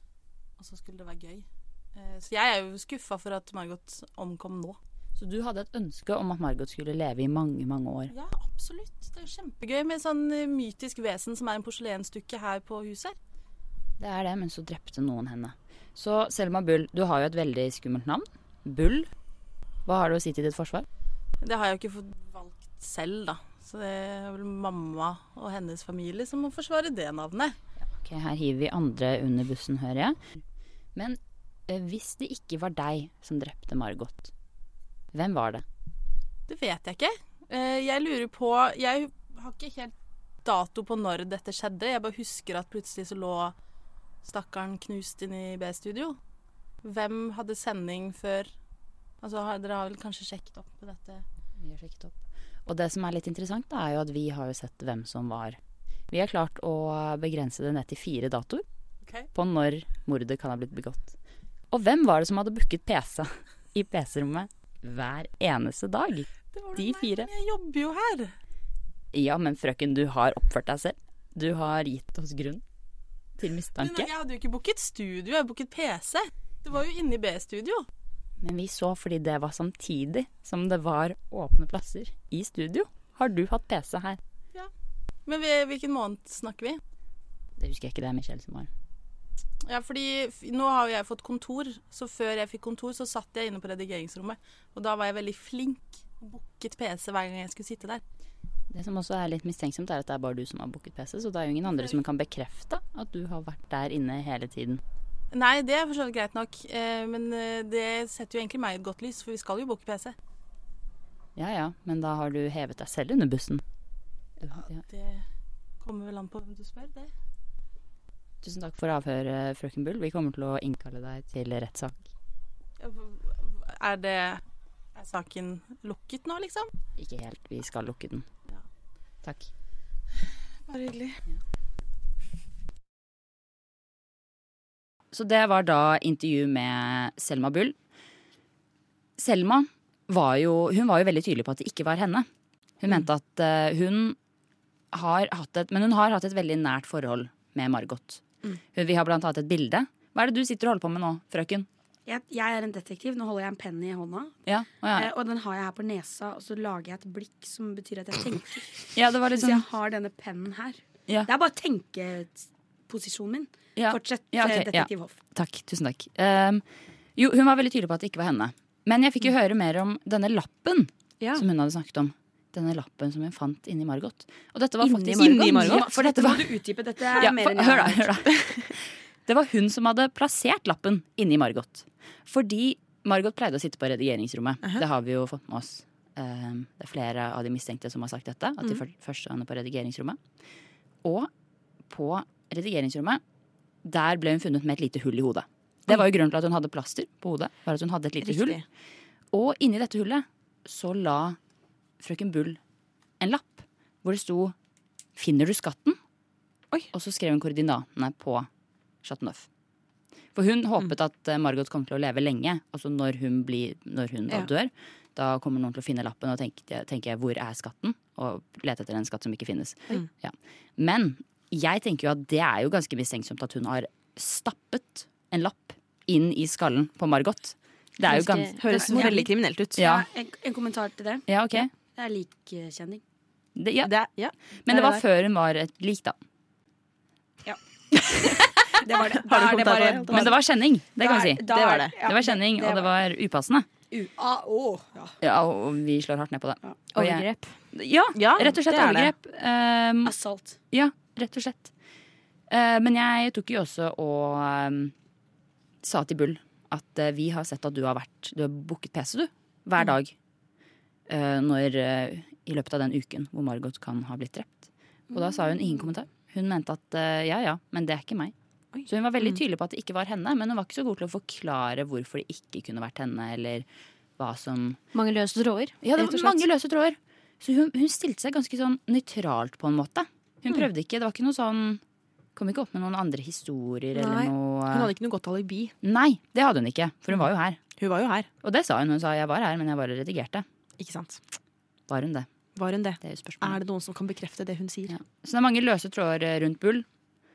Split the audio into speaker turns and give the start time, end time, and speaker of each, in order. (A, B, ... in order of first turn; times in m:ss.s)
0:00.6-0:04.8 A
0:05.2-0:08.1 B
0:08.1-0:13.2 A
0:14.0-0:19.1 B
0:19.8-0:20.9 B
0:21.4-0:27.6 A
0:28.0-0:30.4 B
0:31.0-0:34.3 B
0:35.1-0:35.6 B
0:36.5-0:43.5 A
0:44.2-0:46.2 A
0:46.8-0:48.5 A
0:49.2-0:51.2 A
0:51.6-0:55.6 B
0:56.1-0:58.6 B
0:59.3-1:01.1 B
1:01.7-1:07.3 B
1:06.5-1:08.3 A
1:09.1-1:12.6 B
1:13.4-1:14.1 B
1:13.8-1:17.9 A
1:18.4-1:24.2 B
1:25.2-1:26.8 A
1:27.6-1:28.7 B
1:29.6-1:38.0 A
1:38.7-1:44.8 B
1:45.3-1:50.1 A
1:51.4-1:53.6 B
1:54.4-1:54.8 B
1:54.8-1:55.2 A
1:55.8-1:57.1 A
1:58.4-2:02.1 B
2:02.8-2:04.4 A
2:05.0-2:06.7 A
2:07.0-2:08.2 B
2:09.2-2:09.5 B
2:10.7-2:11.2 A
2:15.1-2:17.8 B
2:19.2-2:22.2 B
2:22.8-2:24.2 B
2:24.9-2:31.7 B
2:32.0-2:34.4 C
2:34.4-2:35.1 B
2:34.9-2:45.1 C
2:38.9-2:39.6 B
2:43.8-2:46.6 B
2:47.2-2:56.5 B
2:54.8-2:55.5 D
2:55.1-2:55.9 E
2:55.5-2:58.1 C
2:57.2-3:10.2 B
3:11.0-3:11.3 B
3:11.9-3:13.2 B
3:13.8-3:18.6 B
3:18.2-3:18.6 E
3:19.3-3:21.4 B
3:22.0-3:22.6 B
3:23.2-3:24.5 B
3:25.2-3:26.0 B
3:26.9-3:28.5 B
3:29.0-3:29.5 B
3:30.3-3:50.0 B
3:48.1-3:49.2 D
3:48.6-3:49.8 E
3:49.8-3:51.3 C
3:51.3-3:51.7 B
3:51.9-3:53.0 C
3:53.6-3:54.0 B
3:53.8-3:55.0 E
3:54.6-3:56.2 B
3:58.0-3:58.4 E
3:58.8-4:00.3 C
3:59.0-4:00.4 E
4:00.1-4:03.7 B
4:01.0-4:02.9 C
4:01.5-4:01.9 E
4:03.9-4:05.1 C
4:05.2-4:10.1 B
4:06.9-4:07.5 D
4:08.1-4:09.1 E
4:10.0-4:10.6 C
4:10.7-4:11.7 B
4:12.5-4:14.9 B
4:15.8-4:20.1 B
4:21.1-4:28.3 B
4:28.7-4:29.3 E
4:28.8-4:33.6 B
4:34.2-4:34.8 B
4:34.9-4:36.4 D
4:35.8-4:41.8 B
4:42.4-4:44.9 B
4:44.7-4:45.7 E
4:45.8-4:47.6 B
4:47.8-4:48.3 E
4:48.4-4:50.4 B
4:50.8-4:51.2 E
4:51.9-4:52.3 B
4:52.6-4:54.9 E
4:53.0-4:53.6 B
4:54.9-4:56.8 B